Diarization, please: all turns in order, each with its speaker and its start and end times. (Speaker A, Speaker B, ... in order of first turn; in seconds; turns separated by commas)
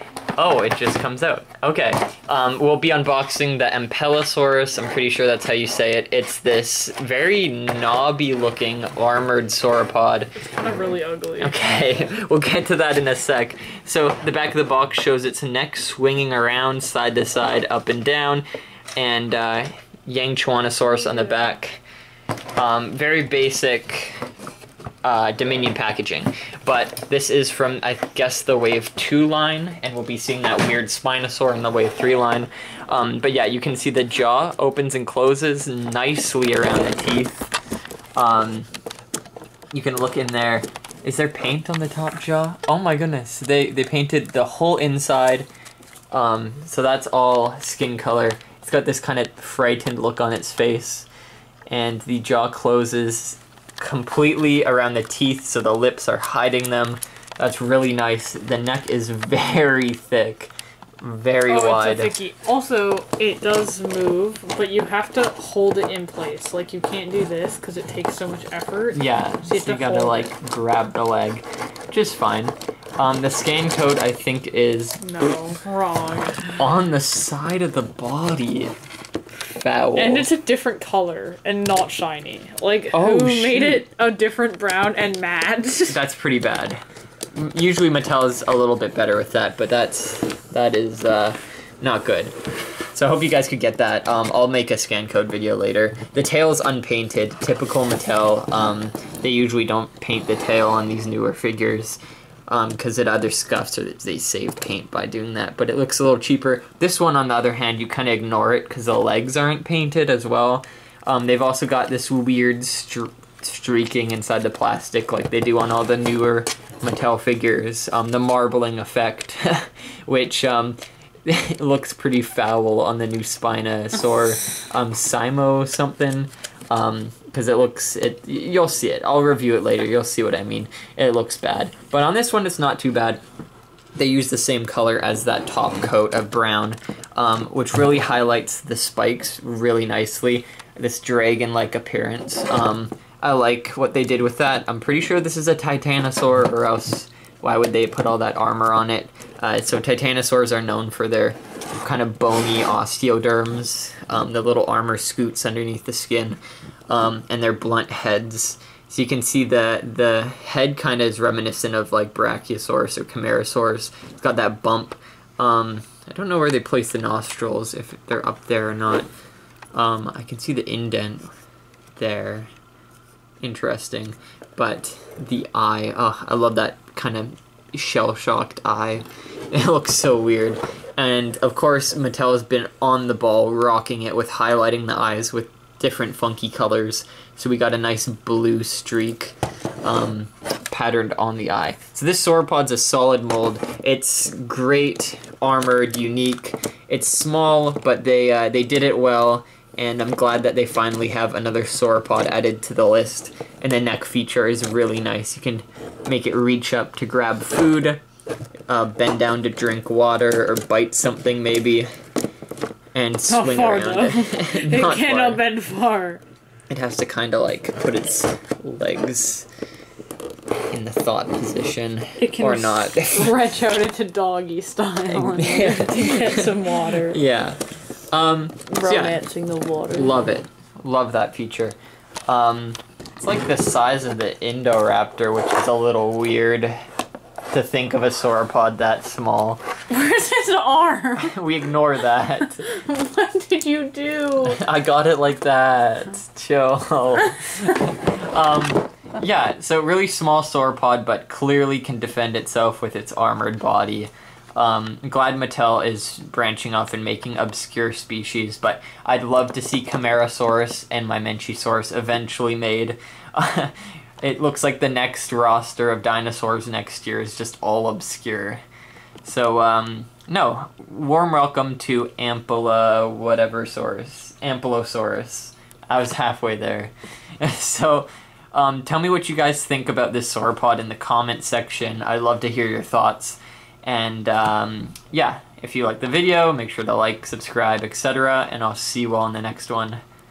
Speaker A: 0.4-10.3, Speaker B: 10.4-11.5, Speaker A: 11.4-18.4, Speaker A: 19.0-21.8, Speaker B: 21.1-21.4, Speaker A: 22.6-24.2, Speaker A: 25.0-37.5, Speaker A: 38.2-38.7, Speaker A: 39.7-45.5, Speaker A: 46.1-51.1, Speaker A: 51.7-62.1, Speaker B: 61.5-70.3, Speaker A: 68.9-75.0, Speaker B: 75.0-76.6, Speaker A: 76.6-78.8, Speaker A: 79.5-80.3, Speaker B: 80.0-86.0, Speaker A: 82.9-83.8, Speaker A: 85.9-86.8, Speaker A: 87.3-92.4, Speaker A: 92.9-133.2, Speaker A: 134.0-169.1, Speaker A: 169.7-171.3, Speaker A: 172.0-172.5, Speaker A: 173.4-208.0, Speaker A: 208.7-211.9, Speaker A: 212.9-215.4, Speaker B: 213.3-216.2, Speaker A: 216.7-219.5, Speaker A: 220.7-223.3, Speaker B: 222.2-227.2, Speaker A: 225.1-226.5, Speaker A: 227.0-229.2, Speaker B: 228.7-230.2, Speaker A: 229.9-231.8, Speaker A: 232.3-236.8, Speaker A: 237.5-239.6, Speaker B: 239.9-241.4, Speaker A: 241.2-242.7, Speaker B: 242.4-244.6, Speaker A: 244.4-268.6, Speaker A: 269.2-290.0